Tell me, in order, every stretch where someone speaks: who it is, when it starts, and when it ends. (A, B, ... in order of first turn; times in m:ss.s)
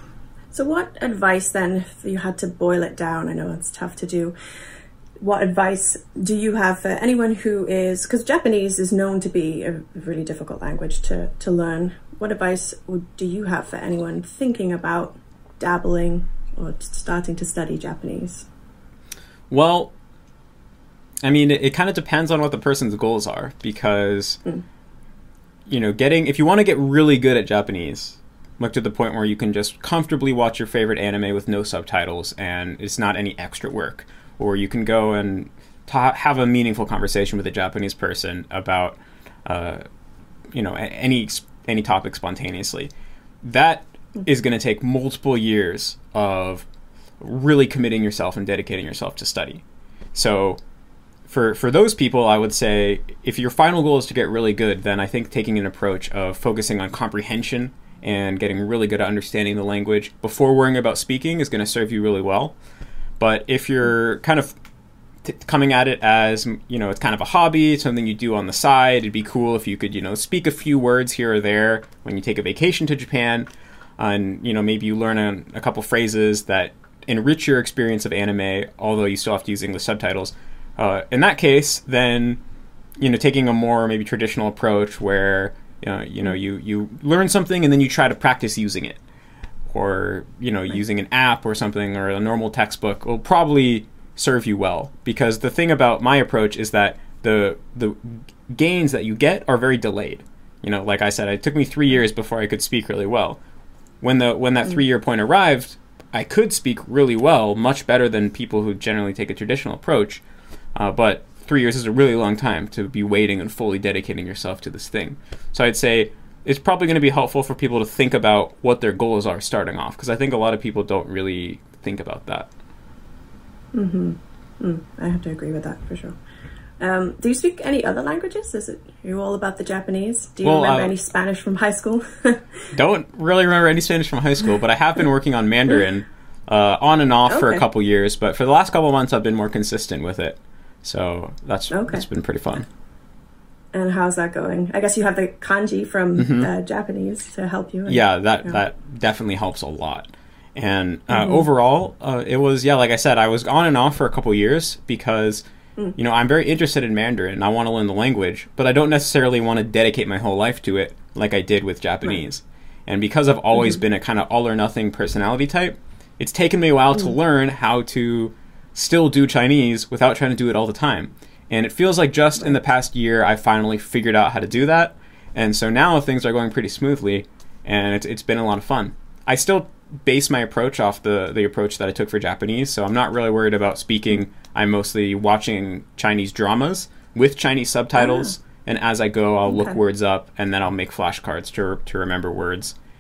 0:00.5-0:04.4 A
0:05.2-0:18.5 A
0:19.5-0:19.9 B
0:21.2-0:24.4 B
0:25.7-0:39.8 B
0:40.5-0:42.9 B
0:43.4-0:46.7 B
0:47.2-0:49.6 B
0:50.1-0:50.6 B
0:51.3-1:02.6 B
1:03.2-1:04.5 B
1:05.2-1:22.4 B
1:23.0-1:29.0 B
1:29.7-1:43.4 B
1:44.0-1:50.2 B
1:50.8-2:02.5 B
2:03.7-2:06.2 A
2:06.8-2:12.7 A
2:10.4-2:11.0 B
2:12.7-2:22.6 B
2:17.3-2:17.6 A
2:21.7-2:22.0 A
2:23.7-2:28.6 A
2:26.2-2:26.5 B
2:27.9-2:35.4 B
2:31.1-2:31.4 A
2:36.0-3:12.8 B
2:43.5-2:43.8 A
3:08.0-3:08.3 A
3:09.5-3:09.8 A